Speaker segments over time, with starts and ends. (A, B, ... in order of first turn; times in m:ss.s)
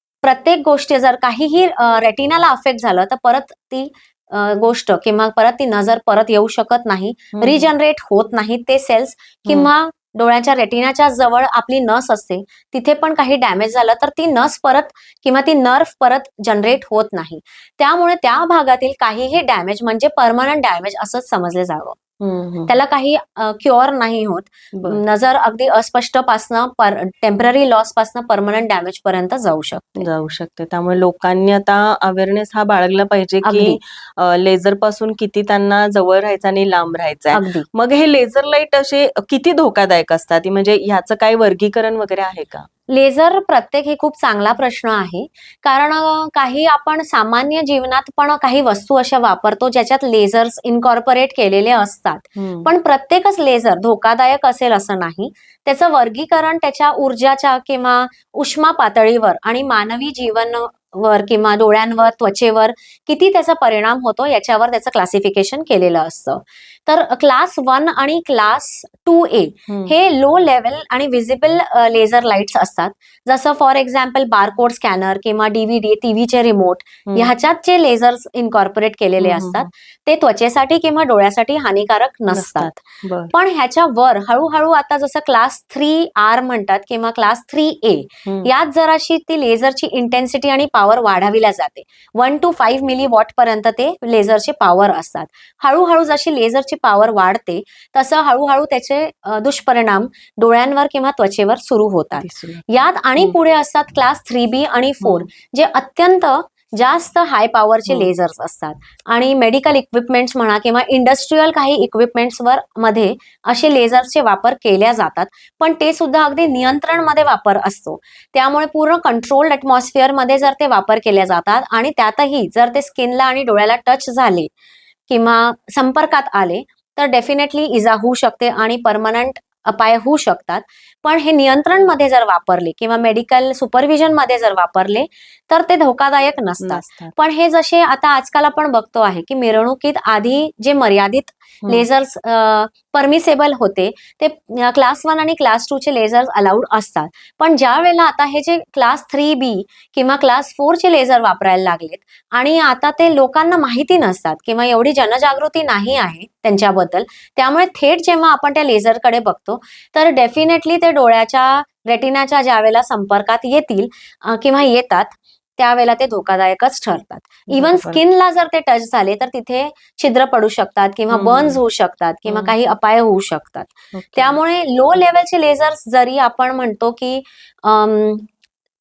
0:00.2-0:22.0 A
0:07.3-0:07.7 B
0:22.2-0:22.7 B
0:22.7-0:30.1 A
0:24.7-0:25.0 B
0:30.0-0:42.7 B
0:33.4-0:33.8 A
0:37.3-0:37.6 A
0:42.9-1:22.7 A
0:52.4-0:52.7 B
1:09.7-1:09.9 B
1:17.0-1:17.3 B
1:19.2-1:19.7 B
1:22.3-1:23.3 B
1:23.3-2:04.5 A
1:42.1-1:43.4 B
1:45.0-1:45.3 B
2:05.1-2:58.3 A
2:16.6-2:17.1 B
2:47.5-2:48.0 B
2:51.1-2:51.6 B
2:52.2-2:52.5 B
2:53.9-2:54.4 B